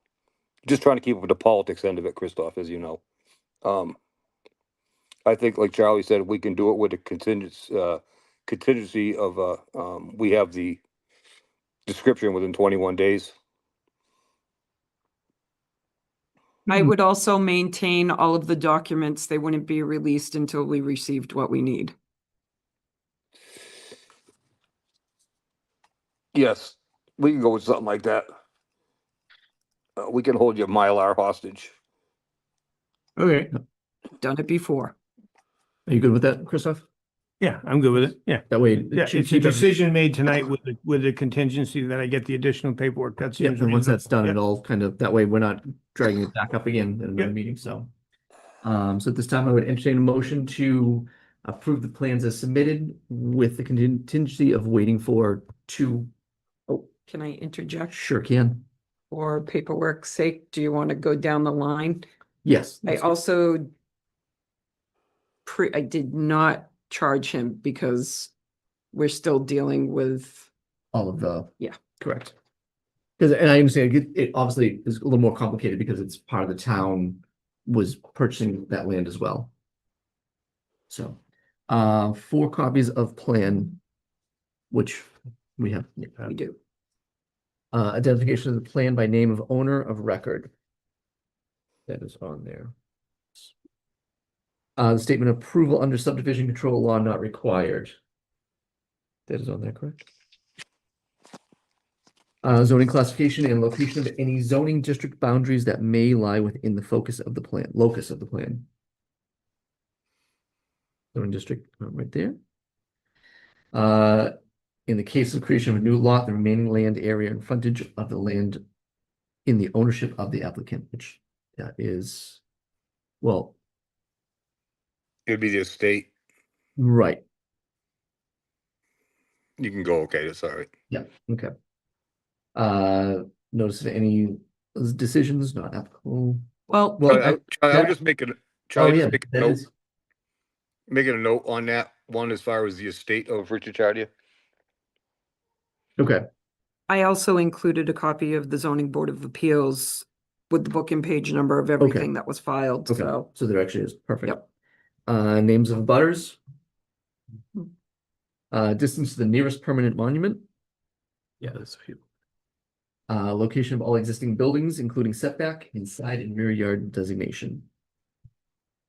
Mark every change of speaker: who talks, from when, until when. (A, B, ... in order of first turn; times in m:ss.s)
0:00.6-0:03.0 A
0:03.6-0:04.0 A
0:05.3-0:10.8 A
0:11.9-0:13.3 A
0:16.7-0:22.0 B
0:26.3-0:28.3 A
0:30.0-0:31.7 A
0:33.2-0:33.5 C
0:34.2-0:35.0 B
0:35.9-0:36.8 D
0:37.4-0:44.4 C
0:38.5-0:39.7 D
0:43.4-0:47.9 D
0:48.6-0:56.1 D
0:57.0-0:58.0 B
0:57.9-0:58.7 D
0:59.1-1:02.1 B
1:02.4-1:03.1 D
1:02.8-1:03.7 B
1:05.4-1:08.3 B
1:08.9-1:10.5 B
1:10.9-1:12.4 D
1:13.2-1:19.5 D
1:20.9-1:21.2 D
1:21.7-1:23.8 D
1:24.7-1:26.2 D
1:26.3-1:26.6 B
1:27.7-1:30.5 D
1:31.9-1:32.7 D
1:34.8-1:37.9 D
1:39.3-1:40.0 D
1:42.4-1:48.7 D
1:51.1-1:52.4 D
1:53.7-1:54.3 D
1:54.9-1:58.6 D
1:59.4-2:02.4 D
2:03.2-2:03.6 D
2:05.3-2:06.1 A
2:06.8-2:07.2 D
2:09.6-2:10.7 A
2:10.9-2:11.5 D
2:12.6-2:18.0 D
2:17.0-2:19.6 A
2:18.8-2:19.7 D
2:20.9-2:24.1 A
2:26.0-2:26.2 D
2:26.9-2:33.3 B
2:31.8-2:32.1 D
2:32.9-2:34.4 D
2:35.1-2:36.4 D
2:38.5-2:40.4 D
2:41.4-2:42.0 D
2:43.1-2:47.7 D